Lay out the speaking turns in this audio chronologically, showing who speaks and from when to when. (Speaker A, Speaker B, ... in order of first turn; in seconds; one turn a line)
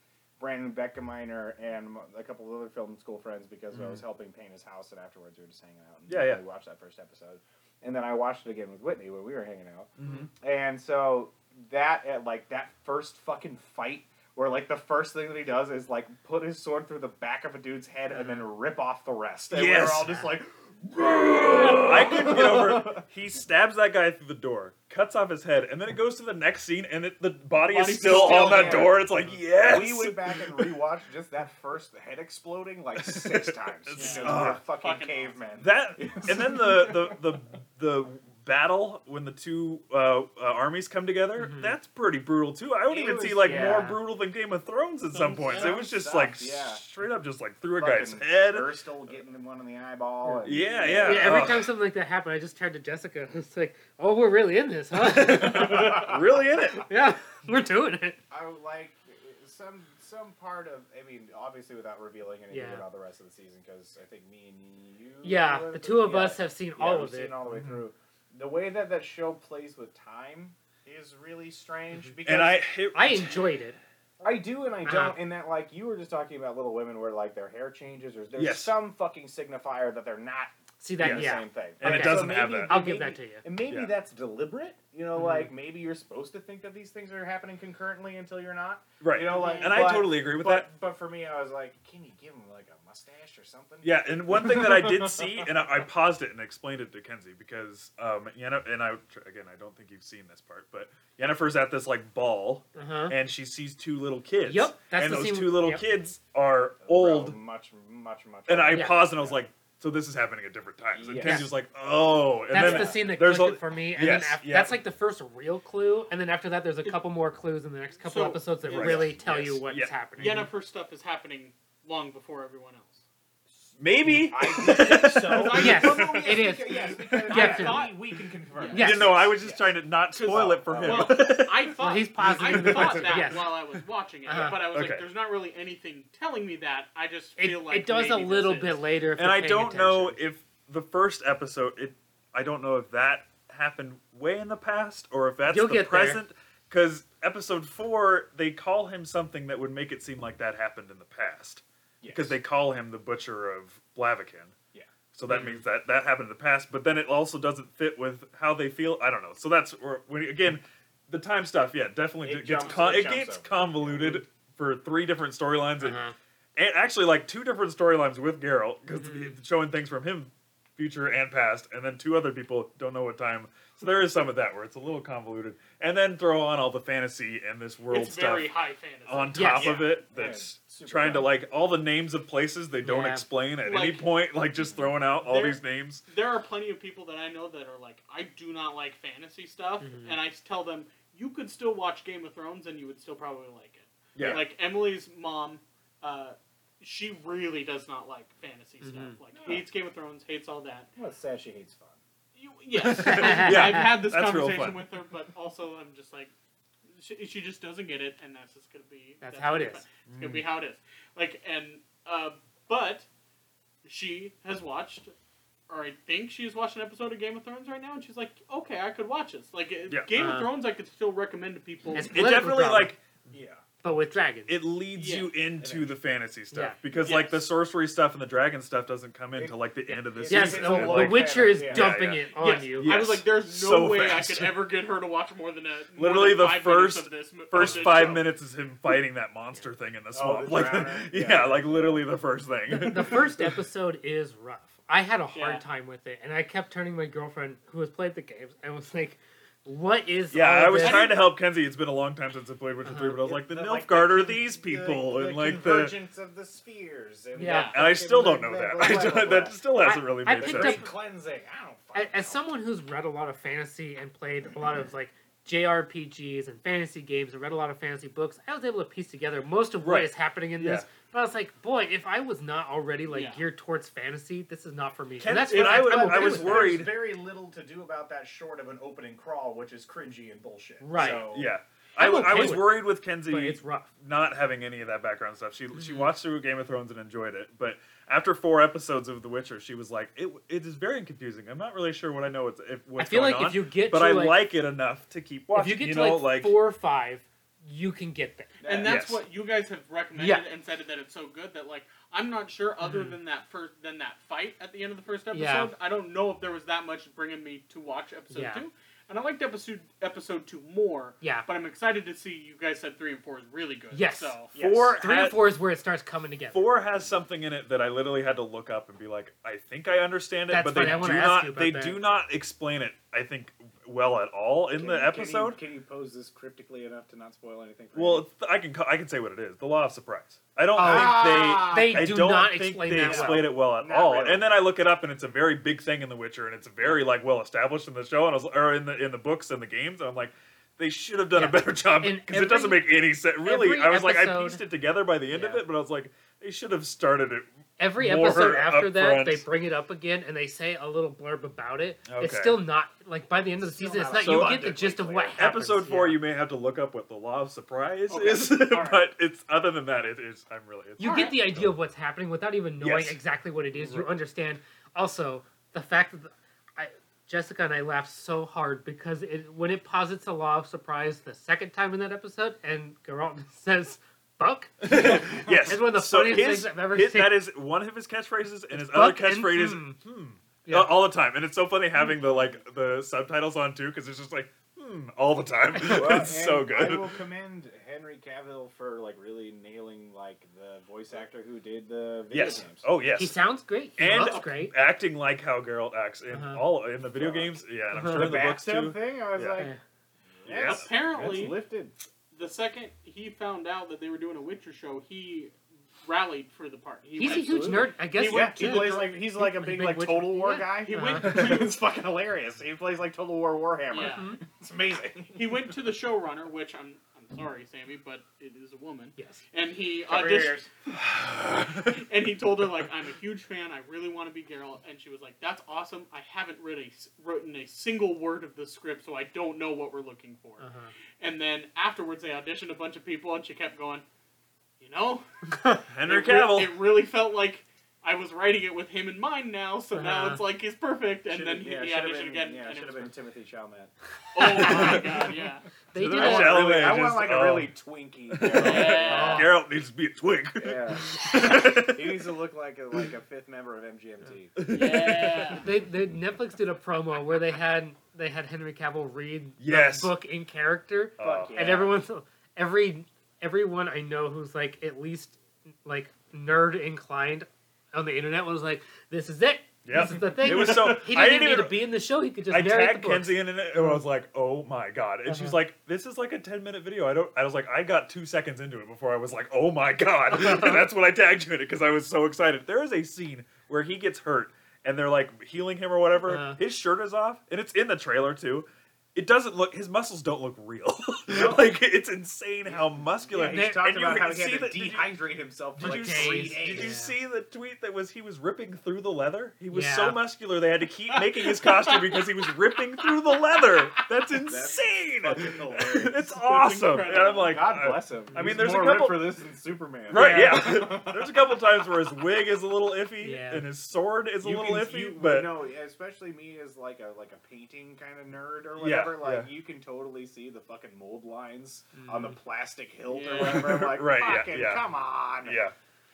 Speaker A: 0.4-23.0
Speaker B: 3.7-4.0
Speaker B: 6.1-6.4
Speaker B: 10.0-10.3
Speaker C: 18.1-18.5
Speaker B: 19.5-20.1
Speaker C: 20.1-20.3
Speaker B: 21.6-30.8
Speaker D: 27.7-29.0
Speaker A: 28.0-37.2
Speaker B: 33.0-34.6
Speaker D: 34.0-35.4
Speaker B: 35.6-48.8
Speaker C: 41.4-41.8
Speaker A: 42.9-43.9
Speaker C: 43.4-44.0
Speaker D: 45.1-45.8
Speaker A: 45.5-46.9
Speaker A: 47.8-51.6
Speaker C: 50.2-56.1
Speaker B: 50.4-51.7
Speaker B: 55.0-56.9
Speaker A: 55.2-56.2
Speaker C: 56.8-58.2
Speaker A: 58.3-72.6
Speaker C: 62.5-62.9
Speaker C: 65.2-67.4
Speaker B: 67.5-67.8
Speaker B: 72.2-73.4
Speaker C: 72.9-73.8
Speaker A: 74.2-95.5
Speaker C: 74.8-75.2
Speaker B: 78.4-78.8
Speaker C: 80.8-83.5
Speaker B: 81.0-82.9
Speaker B: 83.7-84.0
Speaker C: 85.1-85.5
Speaker B: 89.0-90.7
Speaker D: 89.3-89.9
Speaker B: 93.8-107.4
Speaker C: 102.7-103.2
Speaker C: 104.4-105.9
Speaker A: 106.8-109.4
Speaker B: 108.5-114.8
Speaker C: 108.7-109.0
Speaker A: 111.0-111.5
Speaker C: 111.2-111.5
Speaker C: 112.5-120.5
Speaker A: 112.5-113.1
Speaker D: 118.0-118.5
Speaker A: 118.6-119.3
Speaker B: 118.6-120.5
Speaker D: 120.2-123.0
Speaker A: 123.6-131.4
Speaker B: 123.8-126.2
Speaker D: 125.3-128.0
Speaker C: 125.5-127.9
Speaker D: 128.5-129.0
Speaker C: 128.7-129.2
Speaker B: 128.8-131.7
Speaker D: 130.3-138.8
Speaker C: 131.8-133.4
Speaker B: 132.3-133.8
Speaker C: 134.3-134.6
Speaker B: 134.7-135.1
Speaker C: 137.4-140.2
Speaker B: 139.2-154.6
Speaker C: 145.5-146.2
Speaker A: 152.0-152.4
Speaker B: 155.1-166.0
Speaker C: 155.3-155.6
Speaker A: 162.2-164.2
Speaker D: 162.6-163.0
Speaker C: 165.8-166.1
Speaker B: 166.6-178.5
Speaker C: 169.0-169.3
Speaker D: 177.9-179.9
Speaker B: 179.1-186.0
Speaker C: 179.3-179.8
Speaker A: 179.8-181.4
Speaker C: 182.8-183.3
Speaker D: 183.6-184.1
Speaker D: 185.2-200.9
Speaker C: 189.8-190.2
Speaker B: 194.1-194.5
Speaker C: 198.8-199.2
Speaker A: 199.3-199.7
Speaker A: 200.9-202.0
Speaker D: 202.3-206.3
Speaker B: 202.7-204.8
Speaker C: 202.9-203.8
Speaker D: 206.9-213.1
Speaker C: 209.2-209.8
Speaker B: 210.1-210.4
Speaker D: 213.8-215.1
Speaker D: 215.7-222.1
Speaker C: 220.1-220.5
Speaker C: 221.9-222.9
Speaker B: 222.1-223.0
Speaker A: 223.3-223.6
Speaker C: 223.8-224.6
Speaker B: 224.5-234.6
Speaker D: 224.9-225.3
Speaker A: 225.6-225.9
Speaker C: 226.5-226.8
Speaker D: 227.0-227.4
Speaker A: 229.4-232.0
Speaker C: 230.3-232.9
Speaker D: 232.4-238.3
Speaker B: 235.9-243.2
Speaker A: 237.6-238.0
Speaker A: 240.1-242.1
Speaker C: 242.7-251.1
Speaker D: 245.3-245.6
Speaker B: 250.3-256.0
Speaker D: 250.8-251.2
Speaker C: 252.8-253.2
Speaker A: 253.2-259.6
Speaker C: 257.4-257.8
Speaker D: 257.4-257.8
Speaker B: 257.6-260.9
Speaker C: 259.8-260.9
Speaker A: 260.3-262.4
Speaker C: 261.9-276.9
Speaker B: 269.8-270.9
Speaker D: 273.1-273.4
Speaker B: 275.2-277.0
Speaker A: 275.4-281.5
Speaker C: 280.8-281.3
Speaker B: 280.9-296.6
Speaker C: 282.0-283.9
Speaker C: 285.8-286.1
Speaker C: 293.0-294.5
Speaker C: 295.5-298.6
Speaker A: 298.6-299.0
Speaker D: 298.6-314.5
Speaker B: 298.8-299.2
Speaker C: 300.2-300.4
Speaker C: 302.8-303.2
Speaker C: 305.3-305.7
Speaker C: 308.3-308.6
Speaker C: 311.2-311.5
Speaker C: 313.9-316.6
Speaker A: 314.5-315.0
Speaker B: 314.5-315.4
Speaker B: 316.5-325.6
Speaker A: 316.7-317.2
Speaker C: 320.5-322.0
Speaker A: 324.7-328.2
Speaker B: 327.9-349.5
Speaker A: 330.8-332.2
Speaker C: 330.8-333.5
Speaker A: 333.0-334.5
Speaker C: 341.3-344.6
Speaker C: 345.3-345.6
Speaker C: 347.8-356.2
Speaker B: 352.1-352.6
Speaker A: 353.6-355.5
Speaker B: 354.2-354.8
Speaker B: 355.3-361.8
Speaker A: 358.1-359.0
Speaker C: 361.0-377.5
Speaker D: 361.0-361.3
Speaker B: 362.8-363.2
Speaker B: 363.7-364.1
Speaker B: 374.8-387.2
Speaker C: 378.7-380.0
Speaker C: 380.6-380.9
Speaker A: 385.8-392.8
Speaker B: 392.3-393.4
Speaker D: 392.3-392.6
Speaker C: 393.2-394.7
Speaker B: 394.0-399.7
Speaker D: 394.0-394.5
Speaker C: 396.3-396.6
Speaker A: 397.1-399.8
Speaker C: 397.9-398.3
Speaker A: 400.4-401.9
Speaker B: 400.5-401.5
Speaker D: 400.5-401.6
Speaker D: 402.3-409.1
Speaker A: 407.0-415.7
Speaker C: 407.2-411.4
Speaker D: 410.8-411.8
Speaker D: 413.9-414.3
Speaker C: 414.0-414.4
Speaker D: 415.3-420.6
Speaker C: 419.2-419.4
Speaker A: 420.1-421.0
Speaker B: 420.9-422.0
Speaker D: 421.9-430.6
Speaker C: 430.6-430.9
Speaker D: 431.2-434.0
Speaker D: 434.8-435.2
Speaker C: 435.5-435.8
Speaker B: 435.9-436.8
Speaker D: 436.1-443.1
Speaker C: 439.9-440.4
Speaker A: 441.3-445.3
Speaker D: 444.3-445.7
Speaker B: 444.5-445.2
Speaker C: 444.6-445.0
Speaker C: 445.9-446.9
Speaker B: 445.9-447.7
Speaker A: 446.1-449.4
Speaker B: 448.3-452.3
Speaker D: 448.5-449.5
Speaker C: 449.0-449.5
Speaker A: 450.6-454.6
Speaker B: 454.6-455.6
Speaker D: 454.7-455.7
Speaker C: 455.6-474.0
Speaker B: 459.6-460.1
Speaker B: 461.2-461.6
Speaker A: 461.2-462.0
Speaker B: 469.8-471.9
Speaker B: 472.5-495.2
Speaker C: 475.3-475.6
Speaker C: 486.2-486.6
Speaker A: 491.3-491.6
Speaker A: 492.6-497.0
Speaker C: 493.4-493.8
Speaker B: 495.8-509.4
Speaker C: 495.8-497.1
Speaker C: 499.7-500.2
Speaker D: 501.6-502.2
Speaker A: 504.4-506.8
Speaker D: 506.4-507.7
Speaker A: 507.4-511.9
Speaker B: 510.1-515.6
Speaker C: 510.1-510.8
Speaker C: 513.2-513.7
Speaker A: 514.4-525.6
Speaker B: 518.8-519.5
Speaker C: 522.0-522.4
Speaker D: 523.1-523.8
Speaker B: 523.4-524.8
Speaker B: 525.4-525.7